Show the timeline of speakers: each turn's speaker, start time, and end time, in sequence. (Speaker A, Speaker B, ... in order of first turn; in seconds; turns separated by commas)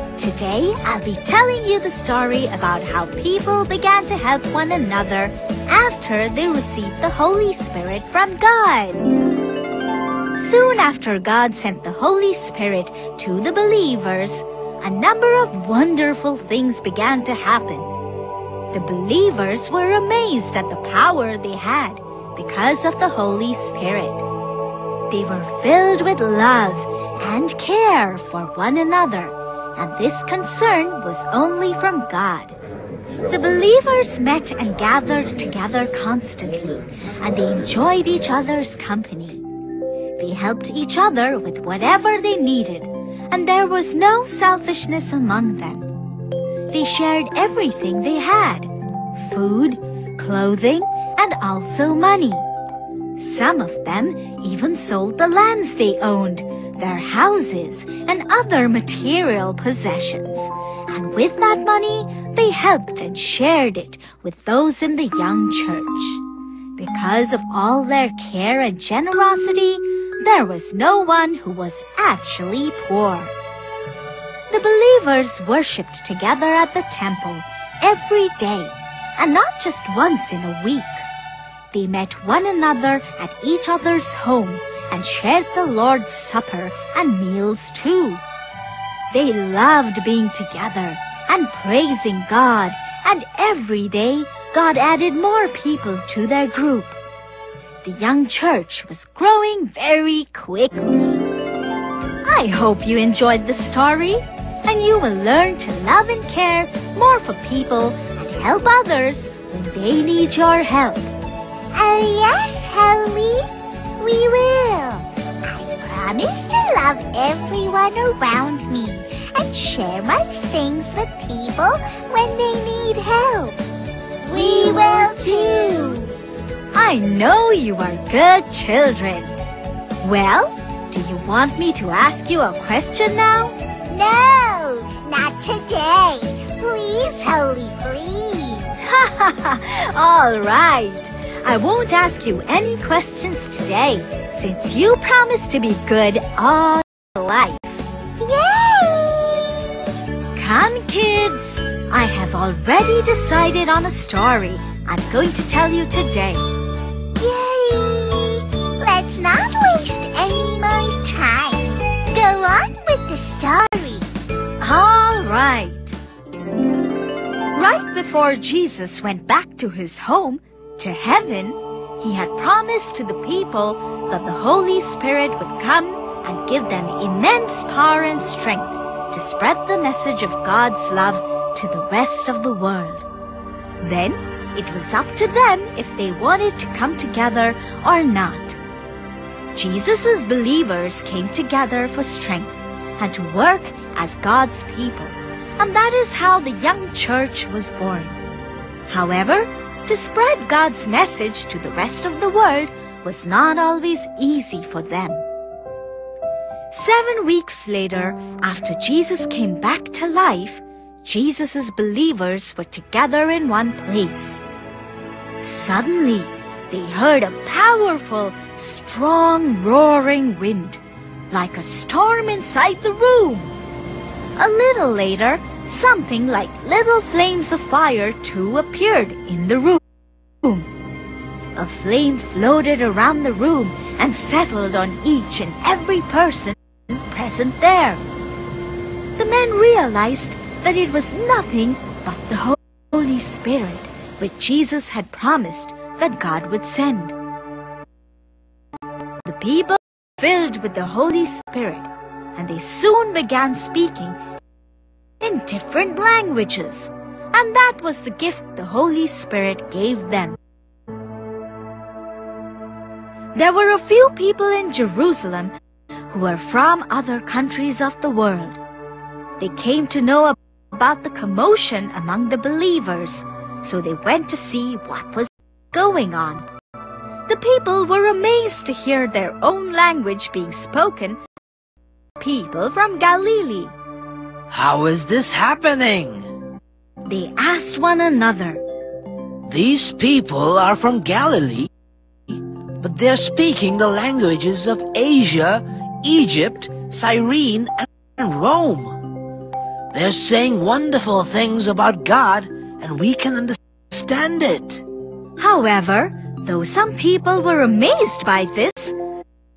Speaker A: 0.2-9.1, Speaker A: 10.3-17.9, Speaker A: 18.7-24.2, Speaker A: 25.1-32.5, Speaker A: 33.3-39.4, Speaker A: 40.2-45.9, Speaker A: 46.7-52.4, Speaker A: 53.1-66.2, Speaker A: 66.8-73.3, Speaker A: 74.5-81.0, Speaker A: 81.7-88.2, Speaker A: 89.1-97.0, Speaker A: 97.8-101.3, Speaker A: 102.2-111.1, Speaker B: 111.7-113.5, Speaker B: 114.0-123.6, Speaker B: 124.2-126.1, Speaker A: 124.3-126.0, Speaker A: 126.7-129.3, Speaker A: 130.0-133.5, Speaker B: 133.9-138.8, Speaker A: 138.8-147.8, Speaker B: 148.2-149.8, Speaker A: 150.3-156.4, Speaker B: 157.2-164.1, Speaker A: 164.6-166.0, Speaker A: 167.5-183.1, Speaker A: 183.8-188.6, Speaker A: 189.5-198.2, Speaker A: 198.9-205.2, Speaker A: 206.7-214.4, Speaker A: 215.4-220.8, Speaker A: 221.3-223.5, Speaker A: 224.3-229.8, Speaker A: 230.4-230.7, Speaker A: 231.5-238.0, Speaker A: 239.2-247.2, Speaker A: 249.2-254.2, Speaker A: 255.2-260.4, Speaker A: 263.4-265.5, Speaker A: 266.1-268.6, Speaker A: 269.4-276.4, Speaker A: 277.3-281.2, Speaker A: 282.2-283.7, Speaker C: 284.5-286.3, Speaker A: 287.0-288.6, Speaker C: 289.5-291.7, Speaker C: 292.3-299.1, Speaker C: 299.9-304.8, Speaker A: 305.4-308.9